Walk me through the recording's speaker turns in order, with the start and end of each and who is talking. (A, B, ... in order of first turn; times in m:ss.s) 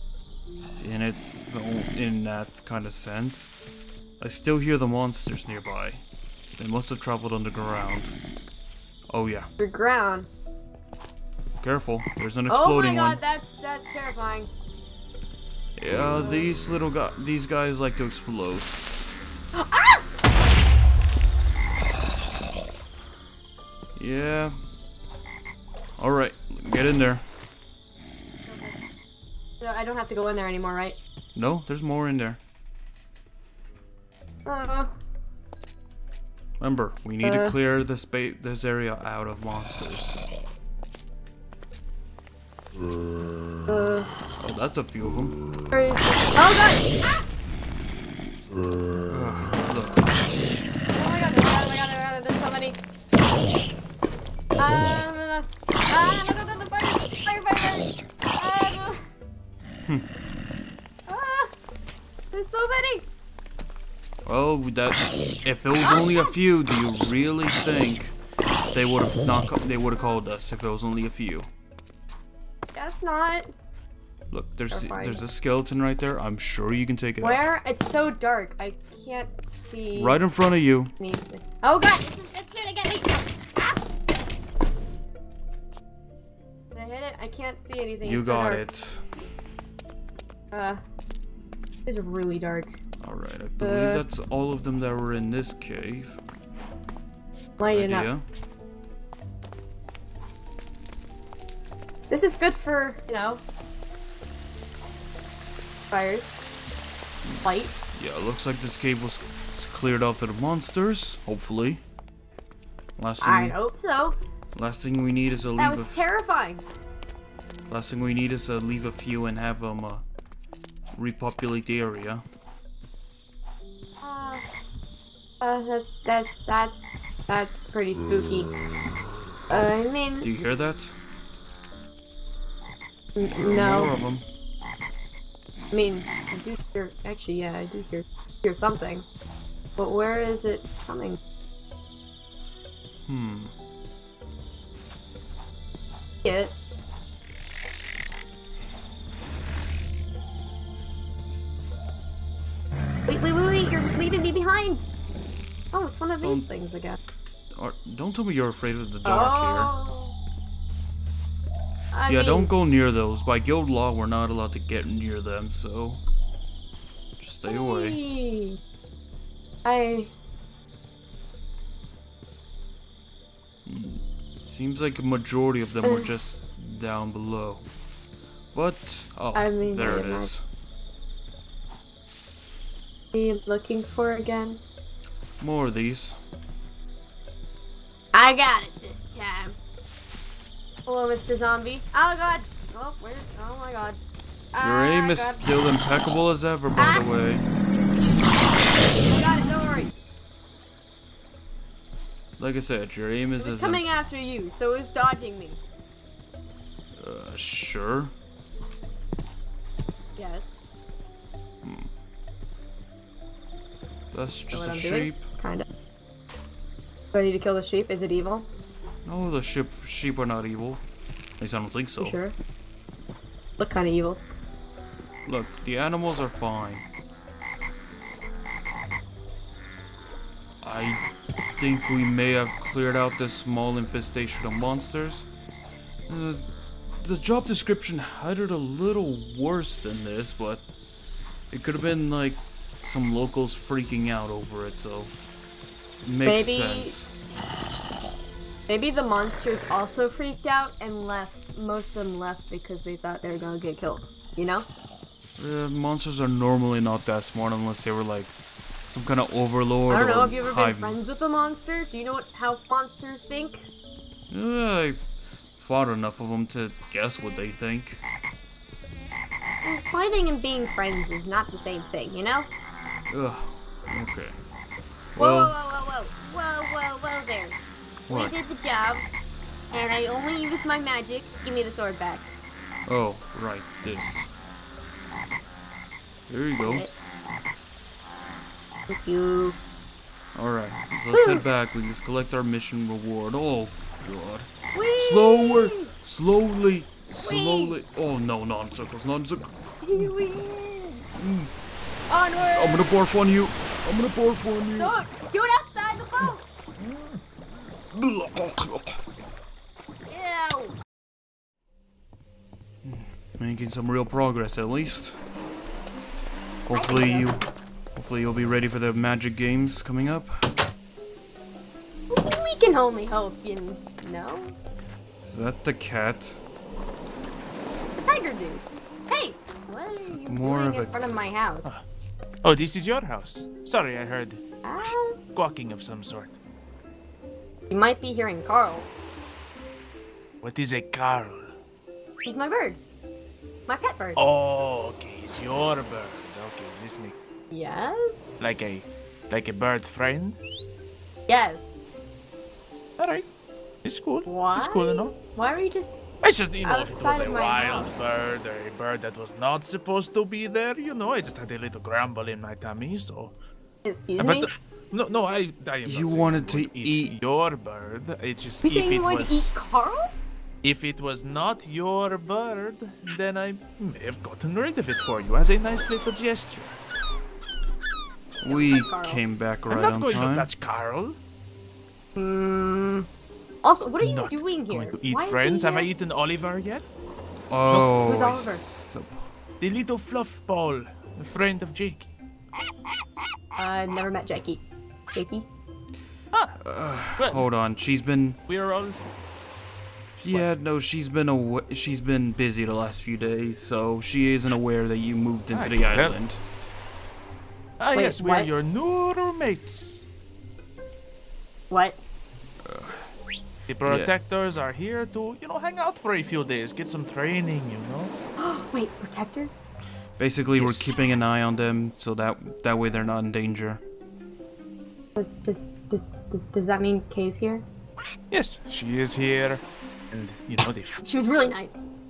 0:00.8-0:03.5 A
0:04.2-0:06.0 A
0:06.6-0:08.1 A
0:09.1-0:09.5 A
0:09.6-0:10.3 B
0:11.6-0:13.2 A
0:12.5-0:14.5 B
0:15.8-0:18.9 A
0:16.2-0:16.5 B
0:19.5-0:20.0 B
0:24.0-0:24.6 A
0:26.0-0:27.2 A
0:28.5-0:28.8 B
0:29.6-0:31.0 B
0:31.4-0:32.4 A
0:34.5-0:34.9 B
0:36.6-0:40.2 A
0:37.2-0:37.6 B
0:43.7-0:44.1 B
0:44.4-0:45.4 A
0:45.7-0:47.2 B
0:49.0-0:50.1 A
0:50.9-0:52.8 B
0:54.6-0:59.0 B
1:01.1-1:01.5 B
1:02.3-1:03.1 B
1:04.3-1:08.2 A
1:05.9-1:06.3 B
1:08.7-1:11.5 A
1:12.7-1:13.5 B
1:14.3-1:17.4 A
1:14.7-1:15.2 B
1:17.2-1:20.2 B
1:19.9-1:20.9 A
1:21.0-1:23.8 B
1:26.7-1:28.6 B
1:28.0-1:29.0 A
1:30.5-1:30.8 B
1:31.9-1:32.7 B
1:33.0-1:36.2 A
1:33.6-1:34.0 B
1:37.6-1:38.1 B
1:37.7-1:38.2 A
1:42.1-1:43.4 B
1:45.9-1:46.4 B
1:47.2-1:51.8 A
1:47.4-1:47.7 B
1:53.0-1:53.6 A
1:53.2-1:54.2 B
1:54.6-1:56.1 A
1:55.6-1:56.6 B
1:57.7-2:00.0 A
2:00.9-2:02.2 A
2:04.0-2:04.4 B
2:05.4-2:08.6 B
2:09.5-2:10.3 B
2:10.2-2:11.0 A
2:13.2-2:14.0 B
2:13.4-2:14.3 A
2:15.7-2:19.0 B
2:19.8-2:21.2 B
2:23.1-2:23.5 A
2:26.2-2:26.5 B
2:33.1-2:34.9 B
2:35.7-2:37.0 B
2:36.2-2:36.5 A
2:37.6-2:39.7 A
2:39.0-2:40.1 B
2:41.9-2:42.5 B
2:42.1-2:46.0 A
2:47.2-2:48.0 A
2:47.5-2:48.6 B
2:49.6-2:50.1 B
2:53.7-2:57.7 A
2:55.8-2:56.1 B
2:58.5-3:00.4 A
2:59.4-3:00.3 B
3:03.1-3:04.6 B
3:05.4-3:06.2 A
3:08.1-3:09.6 B
3:10.8-3:14.0 B
3:14.5-3:15.5 B
3:14.6-3:17.4 A
3:16.8-3:17.1 B
3:19.0-3:19.9 B
3:22.4-3:23.8 A
3:23.4-3:25.6 B
3:27.0-3:28.1 A
3:30.2-3:30.6 B
3:31.6-3:31.9 A
3:34.1-3:35.3 A
3:34.5-3:35.7 B
3:37.1-3:38.5 B
3:39.0-3:40.8 A
3:41.4-3:42.2 A
3:42.0-3:42.4 B
3:43.6-3:44.2 B
3:45.2-3:46.9 A
3:50.6-3:51.0 A
3:51.6-3:55.3 A
3:56.1-4:00.6 A
4:01.5-4:05.1 A
4:06.0-4:07.1 A
4:06.2-4:07.0 B
4:08.7-4:14.7 B
4:15.4-4:18.4 A
4:18.9-4:21.0 A
4:19.9-4:23.7 B
4:24.3-4:25.0 A
4:25.6-4:28.0 A
4:29.6-4:32.5 B
4:33.1-4:34.4 A
4:35.2-4:35.6 A
4:35.2-4:37.6 B
4:38.1-4:38.3 A
4:38.1-4:39.1 B
4:39.7-4:42.3 B
4:42.9-4:44.3 A
4:46.3-4:46.9 A
4:46.6-4:46.9 B
4:48.9-4:49.6 B
4:50.4-5:00.1 A
4:51.1-4:51.4 B
4:54.7-4:55.9 B
4:57.2-4:57.8 B
4:59.8-5:01.0 B
5:01.2-5:01.5 A
5:02.1-5:03.0 B
5:02.5-5:05.0 A
5:04.8-5:06.4 B
5:07.9-5:09.0 A
5:10.0-5:10.8 B
5:12.8-5:15.2 A
5:16.7-5:17.4 A
5:16.7-5:17.3 B
5:18.0-5:20.5 A
5:22.1-5:24.6 B
5:25.2-5:26.4 A
5:28.0-5:31.8 B
5:30.0-5:31.3 A
5:32.4-5:34.4 C
5:34.6-5:35.2 B
5:35.3-5:36.4 C
5:37.7-5:38.9 B
5:40.4-5:41.5 C
5:42.2-5:42.8 B
5:43.7-5:44.2 B
5:44.2-5:47.2 C
5:47.5-5:48.4 B
5:48.4-5:50.4 C
5:51.3-5:51.8 B
5:53.0-5:53.3 C
5:53.8-5:55.2 C
5:54.3-5:56.0 B
5:56.2-6:03.4 C
5:56.6-5:57.9 B
6:03.8-6:04.5 B
6:04.2-6:09.5 C
6:05.8-6:07.2 A
6:08.6-6:10.2 B
6:10.6-6:16.8 C
6:18.4-6:20.5 A
6:18.4-6:19.2 B
6:19.7-6:21.2 C
6:22.2-6:23.1 B
6:23.6-6:25.9 B
6:24.0-6:26.8 C
6:27.5-6:29.3 A
6:27.9-6:28.6 B
6:29.6-6:32.1 C
6:33.6-6:35.5 B
6:36.3-6:36.6 C
6:36.6-6:38.4 A
6:37.2-6:37.5 C
6:38.5-6:39.0 C
6:40.2-6:46.4 A
6:45.5-6:46.2 C
6:47.8-6:50.0 C
6:47.9-6:48.5 B
6:51.7-6:52.0 B
6:52.6-6:53.1 A
6:53.7-6:58.1 C
6:53.8-6:54.1 A
6:58.4-6:59.6 B
7:00.2-7:03.8 A
7:00.6-7:01.0 C
7:05.2-7:07.6 B
7:08.3-7:11.0 C
7:11.0-7:11.9 B